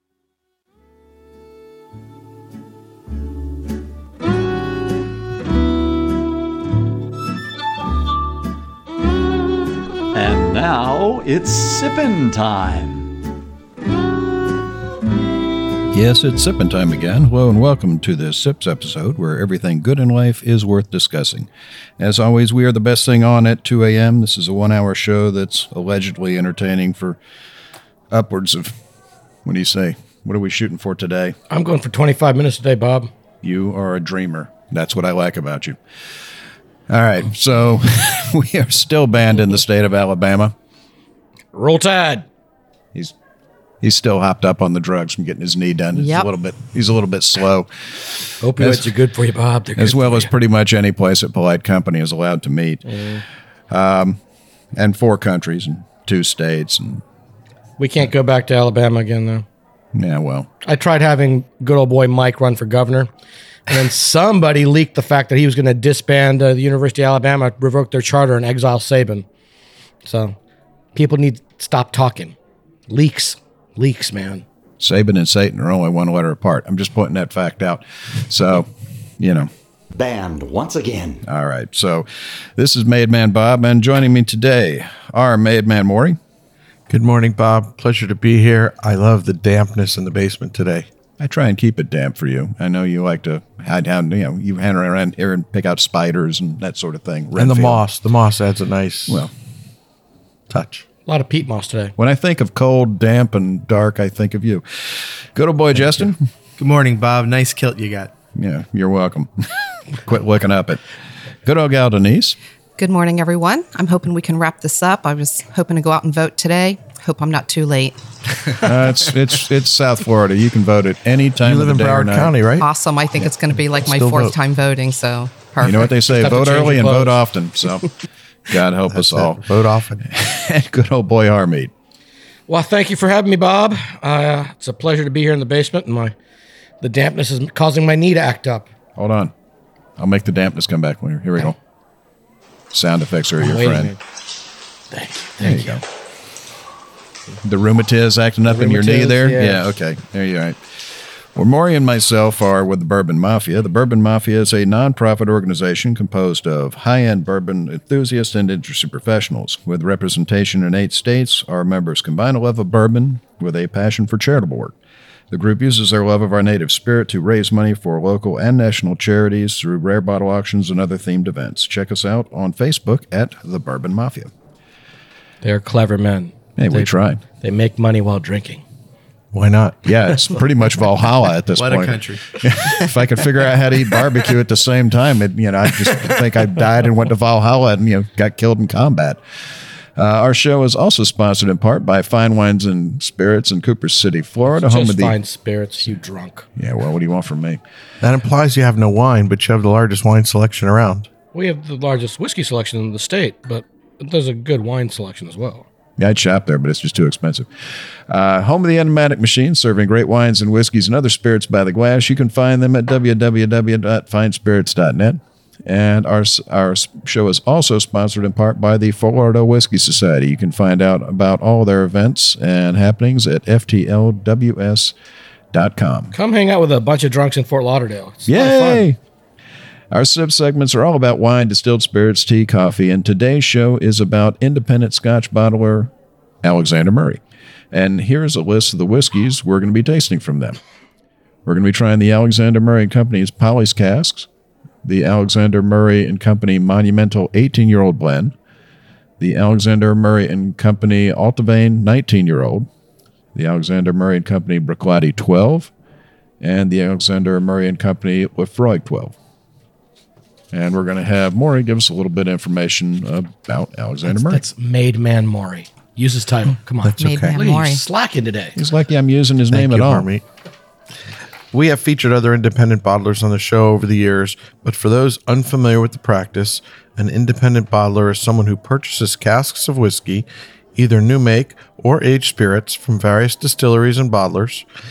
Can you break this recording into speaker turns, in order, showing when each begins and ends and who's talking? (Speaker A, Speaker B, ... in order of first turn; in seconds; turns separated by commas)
Speaker A: 10.1-13.1, Speaker B: 15.9-27.2, Speaker B: 28.1-28.8, Speaker B: 29.4-31.4, Speaker C: 31.5-33.1, Speaker B: 33.4-35.8, Speaker B: 36.9-40.5, Speaker C: 41.5-42.3, Speaker B: 43.8-48.9, Speaker D: 45.9-46.3, Speaker C: 48.4-50.3, Speaker B: 49.8-52.8, Speaker C: 52.9-53.2, Speaker B: 53.7-54.2, Speaker B: 54.8-57.0, Speaker C: 57.8-59.4, Speaker B: 59.9-60.5, Speaker C: 60.6-63.1, Speaker C: 63.7-69.2, Speaker C: 70.0-70.3, Speaker C: 70.9-72.3, Speaker C: 72.9-74.4, Speaker B: 74.8-79.5, Speaker A: 79.9-81.2, Speaker B: 81.2-86.2, Speaker E: 86.9-90.9, Speaker B: 91.2-97.8, Speaker E: 97.3-99.3, Speaker E: 100.5-100.8, Speaker C: 101.0-101.9, Speaker B: 102.0-106.2, Speaker F: 106.6-108.1, Speaker B: 108.3-109.5, Speaker B: 110.0-110.8, Speaker B: 111.4-112.4, Speaker D: 112.8-118.0, Speaker B: 118.6-122.3, Speaker E: 121.4-122.7, Speaker D: 122.6-125.9, Speaker E: 123.8-124.3, Speaker B: 125.6-127.9, Speaker C: 126.2-127.2, Speaker B: 128.5-129.4, Speaker E: 128.9-130.0, Speaker B: 130.0-131.7, Speaker C: 132.5-136.1, Speaker C: 136.8-138.7, Speaker B: 138.9-139.3, Speaker B: 140.0-141.6, Speaker B: 142.7-143.9, Speaker C: 143.4-144.0, Speaker C: 144.9-145.8, Speaker B: 145.4-145.8, Speaker B: 147.4-150.6, Speaker C: 148.4-149.7, Speaker B: 151.3-164.7, Speaker B: 165.3-174.3, Speaker C: 175.4-178.6, Speaker B: 176.6-177.2, Speaker E: 179.3-180.2, Speaker B: 179.8-189.2, Speaker F: 181.6-182.2, Speaker B: 189.9-195.2, Speaker C: 194.5-196.4, Speaker B: 196.6-197.6, Speaker E: 198.0-201.1, Speaker C: 201.3-205.7, Speaker B: 206.0-207.5, Speaker B: 208.1-224.9, Speaker B: 225.5-226.1, Speaker C: 226.1-228.8, Speaker B: 228.3-229.0, Speaker B: 229.9-235.9, Speaker B: 236.4-237.2, Speaker B: 237.7-240.6, Speaker B: 241.4-244.3, Speaker B: 244.8-248.3, Speaker B: 249.2-252.7, Speaker B: 253.3-255.7, Speaker B: 256.4-259.1, Speaker B: 260.5-264.4, Speaker C: 264.0-268.6, Speaker E: 266.8-267.4, Speaker D: 267.0-267.8, Speaker B: 268.5-270.1, Speaker E: 269.5-270.2, Speaker E: 271.5-284.6